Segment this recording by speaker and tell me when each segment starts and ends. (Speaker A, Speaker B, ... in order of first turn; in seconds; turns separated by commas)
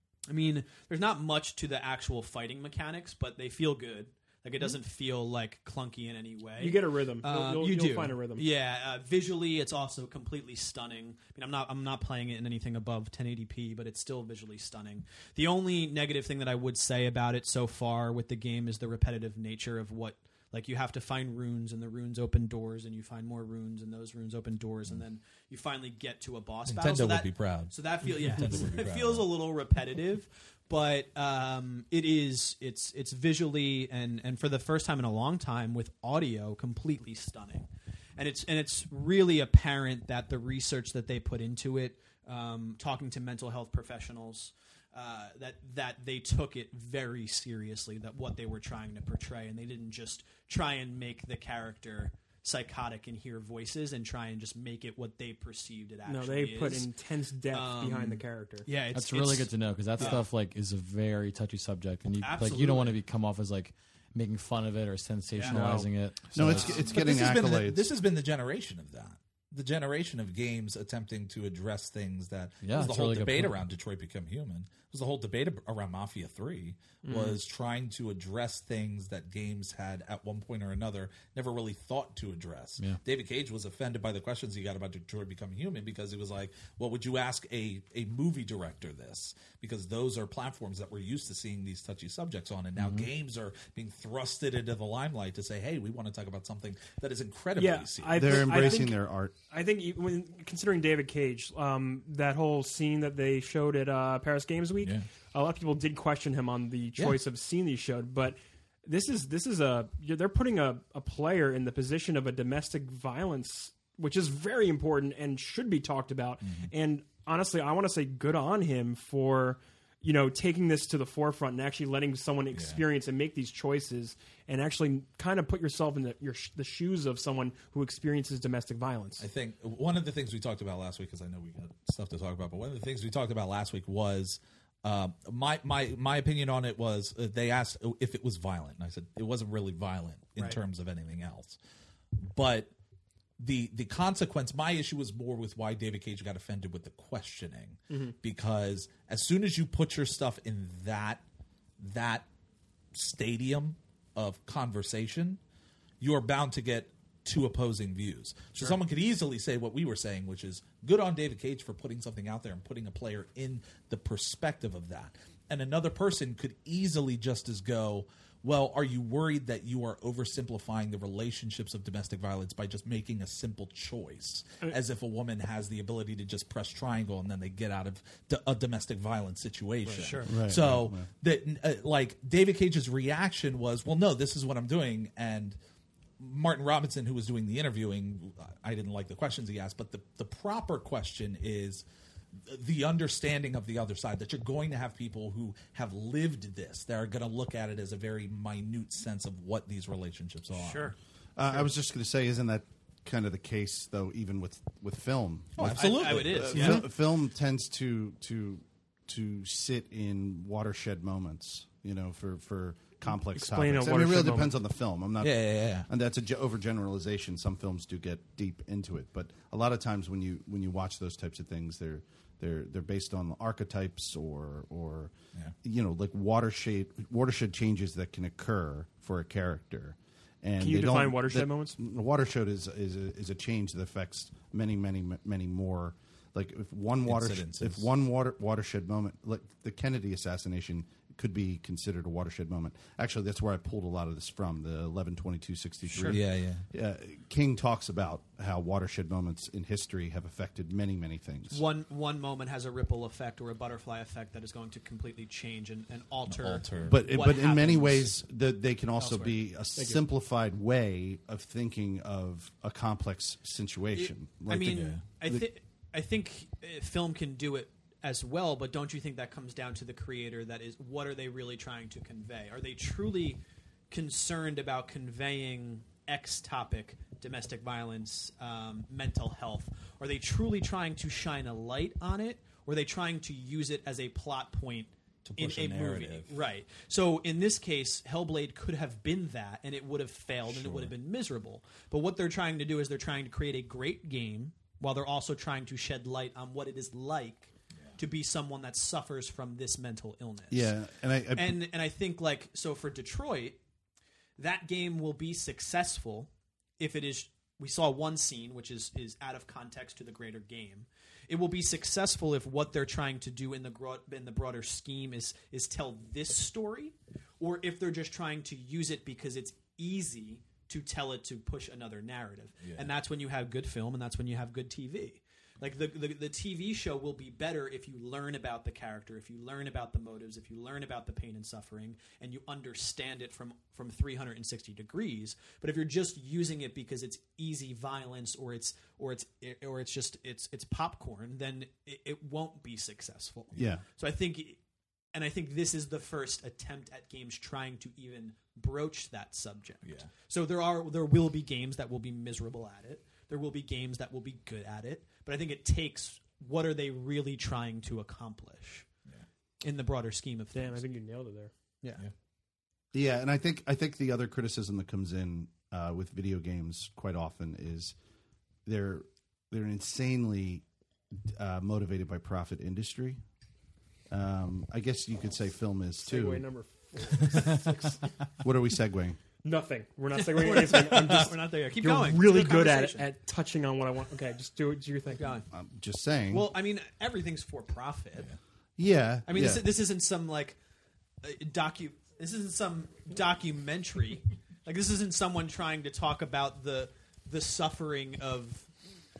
Speaker A: 0.3-56.9, Speaker B: 6.6-8.4, Speaker C: 26.6-29.3, Speaker B: 56.0-58.7, Speaker A: 57.5-60.2, Speaker D: 58.9-66.7, Speaker A: 62.2-62.9, Speaker B: 65.4-65.9, Speaker E: 66.3-67.9, Speaker C: 66.5-98.8, Speaker A: 66.5-66.8, Speaker D: 72.6-73.6, Speaker B: 77.0-77.4, Speaker D: 92.8-93.1, Speaker B: 97.6-129.2, Speaker E: 98.1-99.3, Speaker C: 104.8-105.1, Speaker C: 116.4-116.7, Speaker C: 122.5-122.8, Speaker C: 129.2-141.6, Speaker C: 142.2-142.7, Speaker C: 143.4-151.2, Speaker C: 151.8-152.3, Speaker C: 152.9-155.4, Speaker C: 156.0-185.6, Speaker A: 179.9-180.3, Speaker E: 179.9-181.1, Speaker C: 186.2-191.8, Speaker C: 192.4-200.9, Speaker A: 200.5-200.9, Speaker E: 201.3-225.1, Speaker C: 205.6-206.8, Speaker A: 205.7-206.8, Speaker B: 213.2-214.6, Speaker C: 215.2-215.9, Speaker E: 225.6-251.6, Speaker B: 230.6-231.8, Speaker C: 237.1-237.9, Speaker A: 245.9-246.2, Speaker C: 246.0-246.6, Speaker A: 251.5-258.1, Speaker C: 256.2-257.0, Speaker E: 256.9-265.5, Speaker A: 259.0-259.4, Speaker B: 259.8-260.0, Speaker A: 263.9-300.7, Speaker C: 264.7-265.0, Speaker C: 285.2-286.4, Speaker C: 290.4-290.9, Speaker E: 300.5-301.6, Speaker A: 301.3-303.6, Speaker A: 304.4-344.6, Speaker C: 322.6-322.9, Speaker E: 343.5-343.8, Speaker A: 345.1-358.9, Speaker C: 349.8-350.1, Speaker A: 359.6-360.8, Speaker B: 360.5-361.5, Speaker E: 362.9-367.9, Speaker E: 368.6-370.6, Speaker E: 371.2-373.2, Speaker E: 374.1-376.4, Speaker B: 376.0-378.1, Speaker E: 378.4-379.2, Speaker B: 379.4-385.3, Speaker A: 380.2-383.1, Speaker A: 385.1-385.4, Speaker E: 385.5-386.5, Speaker A: 386.3-388.3, Speaker E: 388.8-389.7, Speaker A: 389.2-390.6, Speaker A: 391.2-398.7